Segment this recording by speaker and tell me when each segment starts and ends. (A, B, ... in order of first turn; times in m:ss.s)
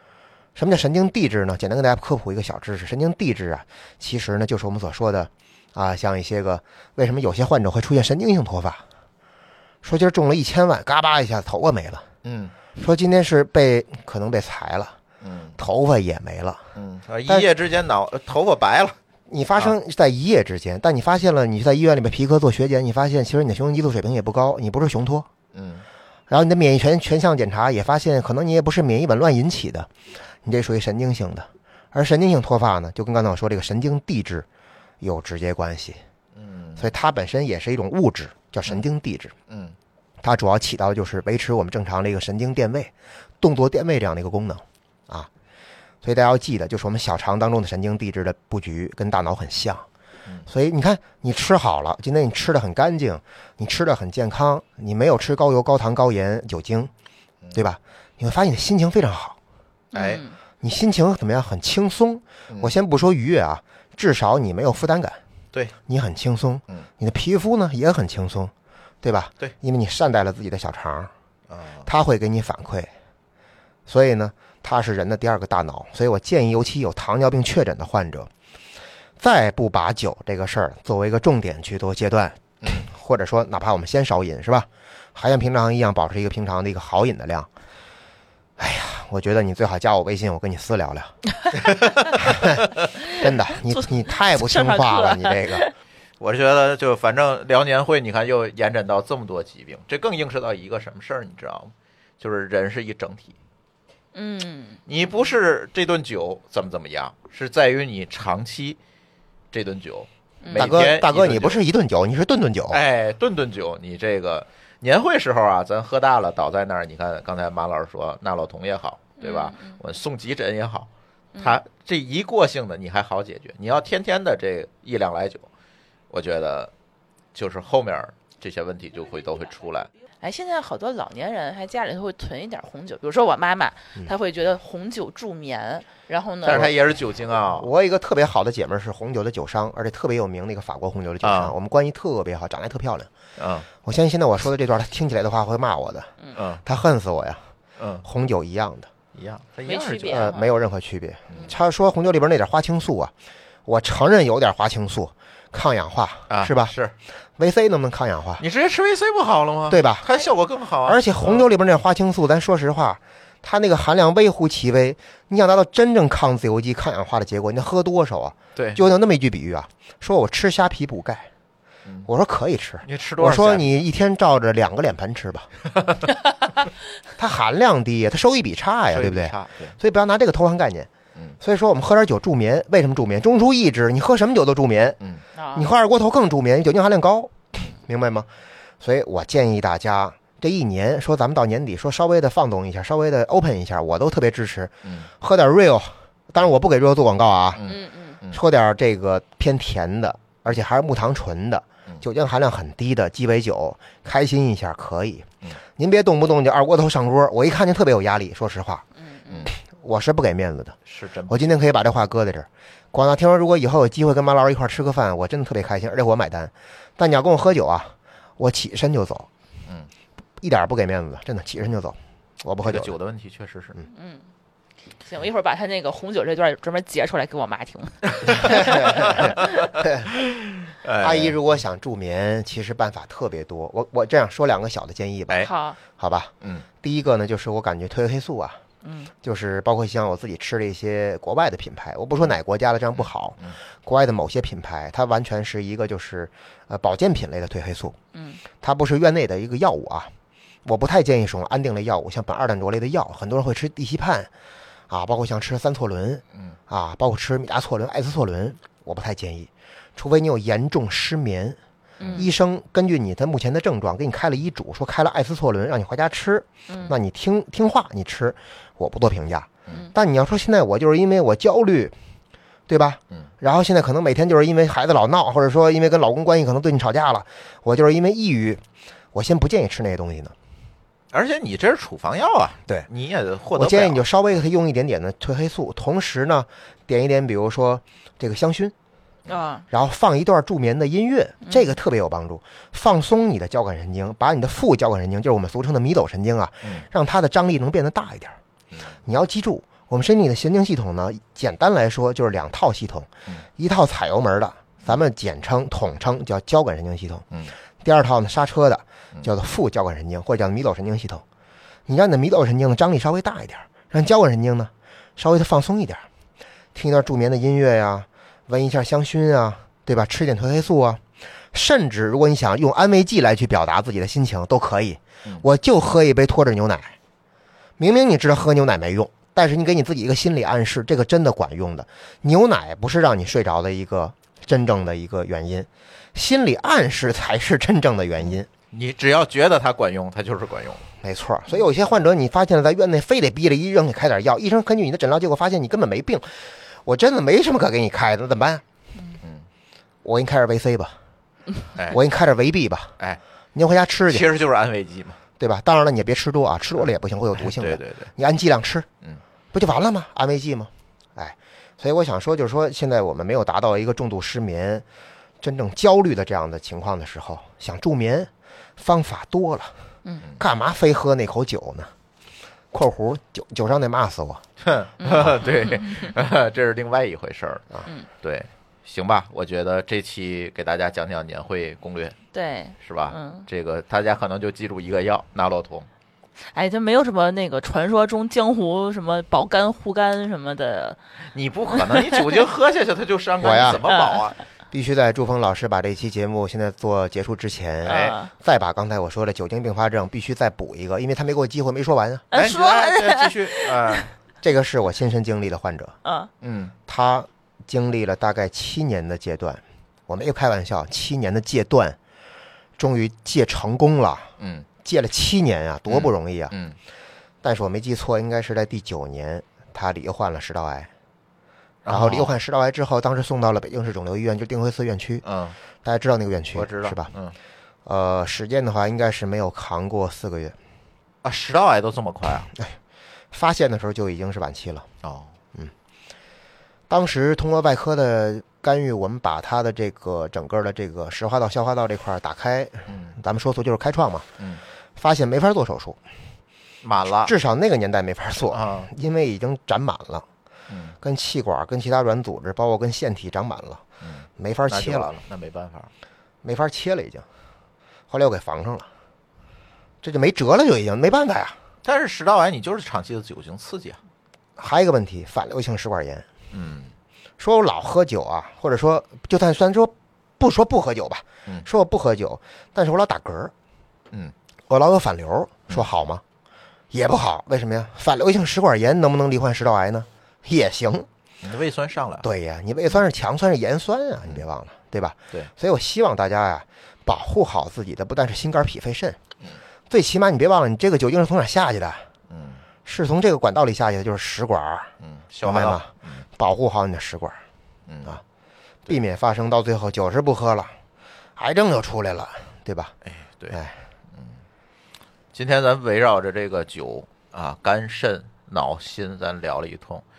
0:00.6-0:08.8 A
0:09.8-0:12.1 A
0:12.2-0:12.5 B
0:12.8-0:15.0 A
0:15.2-0:15.6 B
0:15.6-0:16.6 A
0:16.8-0:19.0 B
0:19.3-0:25.3 A
0:25.5-0:25.8 B
0:26.3-0:29.9 A
0:30.4-0:34.5 A
0:35.0-0:36.0 A
0:36.4-0:36.9 B
0:36.8-0:39.3 A
0:39.5-0:39.8 B
0:40.2-0:45.3 A
0:46.0-0:49.9 A
0:50.5-0:56.9 A
0:57.5-0:59.4 A
0:59.9-1:00.2 B
0:59.9-1:00.4 C
1:00.6-1:05.2 A
1:05.9-1:11.1 A
1:11.5-1:11.9 B
1:11.9-1:12.9 A
1:13.9-1:18.3 A
1:19.2-1:27.5 A
1:28.6-1:31.1 A
1:31.6-1:32.2 B
1:32.2-1:32.6 A
1:33.1-1:35.7 C
1:33.2-1:35.6 A
1:36.2-1:43.4 B
1:44.1-1:44.8 C
1:44.9-1:48.8 B
1:49.5-1:51.6 B
1:50.4-1:50.7 C
1:50.6-1:52.8 A
1:52.7-2:00.9 B
1:59.2-1:59.8 C
2:01.4-2:01.6 C
2:01.4-2:05.5 B
2:06.1-2:06.7 B
2:07.3-2:09.9 B
2:10.2-2:16.7 C
2:16.4-2:17.7 B
2:16.5-2:16.8 A
2:17.6-2:23.1 A
2:21.2-2:21.6 B
2:23.4-2:23.7 B
2:23.8-2:26.1 A
2:26.4-2:26.6 B
2:26.6-2:27.4 A
2:27.8-2:28.0 B
2:28.0-2:28.9 A
2:29.1-2:30.3 B
2:29.7-2:30.5 C
2:30.0-2:33.1 A
2:33.7-2:36.8 A
2:36.3-2:36.9 B
2:37.4-2:38.4 A
2:38.4-2:41.5 B
2:39.7-2:40.1 A
2:40.8-2:51.3 A
2:48.6-2:48.8 B
2:52.1-2:55.5 A
2:52.8-2:53.8 B
2:57.2-3:00.9 A
2:58.9-2:59.8 B
3:01.4-3:05.0 A
3:05.4-3:05.7 C
3:05.6-3:08.3 A
3:08.8-3:17.7 A
3:17.6-3:18.4 B
3:17.6-3:18.2 C
3:18.3-3:28.9 A
3:29.1-3:29.4 C
3:29.5-3:39.3 A
3:30.9-3:31.5 B
3:40.4-3:42.9 A
3:42.6-3:43.8 B
3:43.9-3:44.3 C
3:45.0-3:49.5 C
3:48.1-3:51.4 B
3:48.4-3:50.1 A
3:51.0-3:58.6 A
3:55.4-3:55.8 C
3:56.4-3:56.7 B
3:58.8-3:59.1 C
3:59.2-4:08.0 A
4:03.0-4:03.6 B
4:08.1-4:08.4 C
4:08.6-4:10.1 A
4:10.6-4:14.3 A
4:14.9-4:21.6 A
4:22.0-4:22.3 C
4:22.2-4:32.0 A
4:26.7-4:27.0 C
4:32.7-4:38.6 A
4:39.1-4:40.4 A
4:41.1-4:44.0 B
4:43.5-4:48.7 A
4:49.3-4:49.6 C
4:49.7-4:58.4 A
4:59.0-5:07.2 A
5:07.8-5:11.2 A
5:11.9-5:16.0 A
5:16.8-5:27.0 A
5:27.8-5:38.5 A
5:38.7-5:40.8 B
5:41.0-5:48.6 A
5:50.0-5:51.0 A
5:51.9-5:53.0 A
5:53.6-5:54.3 A
5:54.1-5:55.2 B
5:55.4-5:58.9 A
5:56.8-5:58.1 B
5:59.5-6:04.8 A
6:05.4-6:09.7 A
6:10.4-6:11.9 A
6:12.7-6:14.4 A
6:14.6-6:17.6 B
6:15.0-6:16.1 C
6:18.2-6:22.2 B
6:22.3-6:23.5 C
6:22.8-6:25.9 B
6:26.5-6:31.0 C
6:31.3-6:34.4 B
6:31.9-6:32.4 C
6:33.4-6:33.8 A
6:33.8-6:34.3 C
6:34.7-6:42.3 A
6:37.8-6:38.2 B
6:37.9-6:38.3 C
6:42.3-6:44.1 C
6:42.3-6:44.1 B
6:44.4-6:46.0 A
6:46.0-6:46.3 C
6:46.4-6:46.8 B
6:46.9-6:52.0 A
6:52.8-6:54.3 A
6:54.4-6:54.7 B
6:54.8-6:56.5 A
6:55.9-6:56.8 B
6:57.4-7:00.9 A
7:01.8-7:02.3 B
7:01.9-7:05.2 A
7:05.2-7:05.6 B
7:05.8-7:07.1 A
7:06.5-7:07.4 B
7:07.9-7:10.6 A
7:11.2-7:12.5 B
7:13.3-7:14.9 A
7:15.0-7:15.3 B
7:16.9-7:24.3 A
7:22.9-7:23.2 B
7:25.0-7:26.0 A
7:26.8-7:27.3 B
7:27.2-7:30.3 A
7:28.5-7:28.9 B
7:30.7-7:31.0 B
7:31.0-7:33.8 A
7:34.0-7:35.9 B
7:34.4-7:35.1 A
7:36.4-7:37.2 A
7:38.1-7:38.9 A
7:40.0-7:41.6 A
7:41.8-7:44.0 B
7:44.6-7:46.3 A
7:46.5-7:46.9 B
7:47.4-7:53.5 A
7:54.7-7:56.2 A
7:56.9-8:01.1 A
8:01.4-8:02.3 B
8:02.2-8:09.2 A
8:09.9-8:12.1 A
8:12.3-8:12.6 B
8:12.8-8:17.4 A
8:15.0-8:16.2 B
8:17.9-8:18.2 B
8:18.9-8:20.7 A
8:21.4-8:23.0 A
8:23.1-8:23.6 B
8:23.5-8:23.8 A
8:24.1-8:24.4 B
8:25.3-8:30.0 B